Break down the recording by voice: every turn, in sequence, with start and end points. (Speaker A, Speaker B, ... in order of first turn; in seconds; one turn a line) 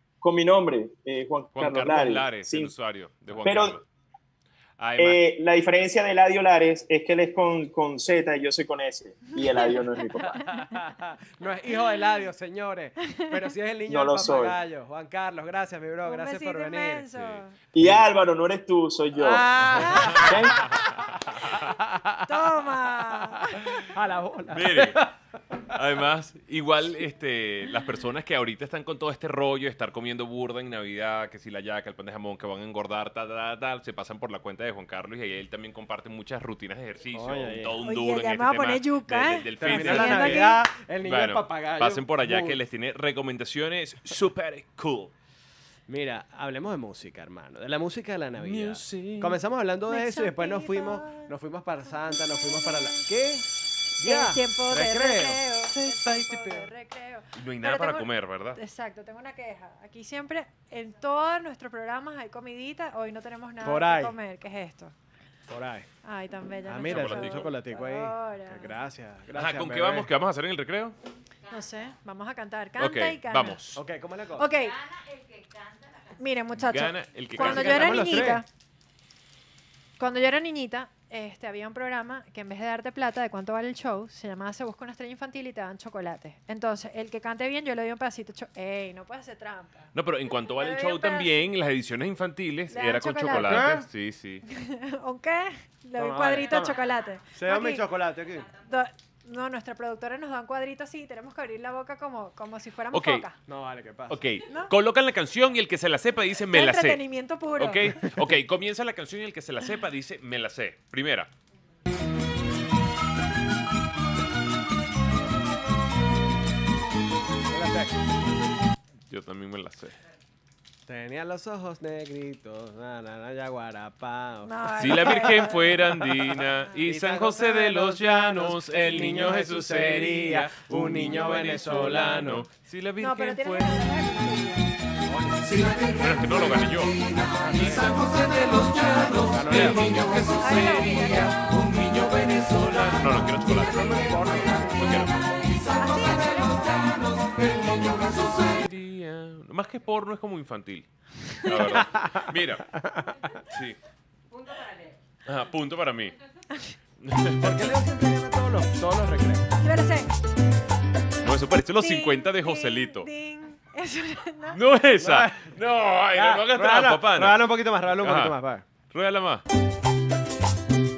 Speaker A: 0.2-2.7
Speaker B: 1.6-3.8
Speaker A: 3.4-3.8
Speaker B: 4.8-5.2
Speaker A: 5.0-10.4
Speaker C: 10.5-17.1
Speaker A: 13.9-14.6
Speaker D: 16.1-17.6
Speaker B: 17.2-18.0
Speaker A: 17.7-19.5
Speaker C: 19.1-20.8
Speaker D: 19.8-20.3
Speaker A: 20.1-20.7
Speaker C: 21.4-22.4
Speaker D: 22.3-23.6
Speaker C: 23.9-25.1
Speaker B: 24.5-25.0
Speaker B: 25.7-45.1
Speaker C: 37.1-37.7
Speaker D: 37.8-40.6
Speaker C: 39.6-42.6
Speaker C: 45.9-53.5
Speaker B: 48.4-49.4
Speaker D: 49.9-51.3
Speaker D: 52.1-53.1
Speaker C: 54.0-55.4
Speaker D: 54.0-64.9
Speaker B: 55.7-56.7
Speaker B: 57.4-58.6
Speaker C: 63.6-64.2
Speaker C: 65.5-65.9
Speaker D: 66.0-68.7
Speaker C: 66.7-70.1
Speaker B: 66.9-67.5
Speaker B: 69.3-71.0
Speaker D: 71.5-73.6
Speaker B: 72.8-73.8
Speaker C: 73.8-74.5
Speaker D: 74.4-74.8
Speaker D: 76.2-78.5
Speaker B: 76.6-78.3
Speaker C: 77.4-78.4
Speaker D: 80.0-89.9
Speaker B: 90.0-94.4
Speaker D: 90.5-91.3
Speaker D: 92.7-93.7
Speaker C: 93.3-93.9
Speaker D: 94.5-97.8
Speaker C: 96.0-96.8
Speaker C: 97.4-98.5
Speaker D: 98.6-103.4
Speaker B: 102.9-103.2
Speaker C: 103.5-104.2
Speaker B: 104.1-107.0
Speaker D: 106.5-108.0
Speaker B: 107.6-111.3
Speaker C: 117.5-118.0
Speaker B: 119.1-120.0
Speaker C: 120.9-125.5
Speaker D: 124.5-125.8
Speaker B: 124.8-133.9
Speaker C: 126.0-132.5
Speaker D: 133.0-134.7
Speaker C: 135.1-135.7
Speaker B: 135.9-137.0
Speaker C: 137.4-138.1
Speaker B: 137.5-140.3
Speaker C: 139.1-140.3
Speaker D: 140.3-141.4
Speaker B: 142.3-145.4
Speaker C: 143.7-144.9
Speaker D: 145.8-147.1
Speaker B: 147.9-152.7
Speaker C: 151.7-152.2
Speaker C: 152.8-153.1
Speaker B: 153.5-153.8
Speaker B: 155.2-156.2
Speaker B: 157.0-157.7
Speaker C: 157.4-159.5
Speaker D: 159.6-160.1
Speaker B: 161.2-163.1
Speaker D: 161.8-164.6
Speaker B: 164.5-168.3
Speaker C: 165.0-165.5
Speaker C: 166.1-168.6
Speaker B: 168.9-169.4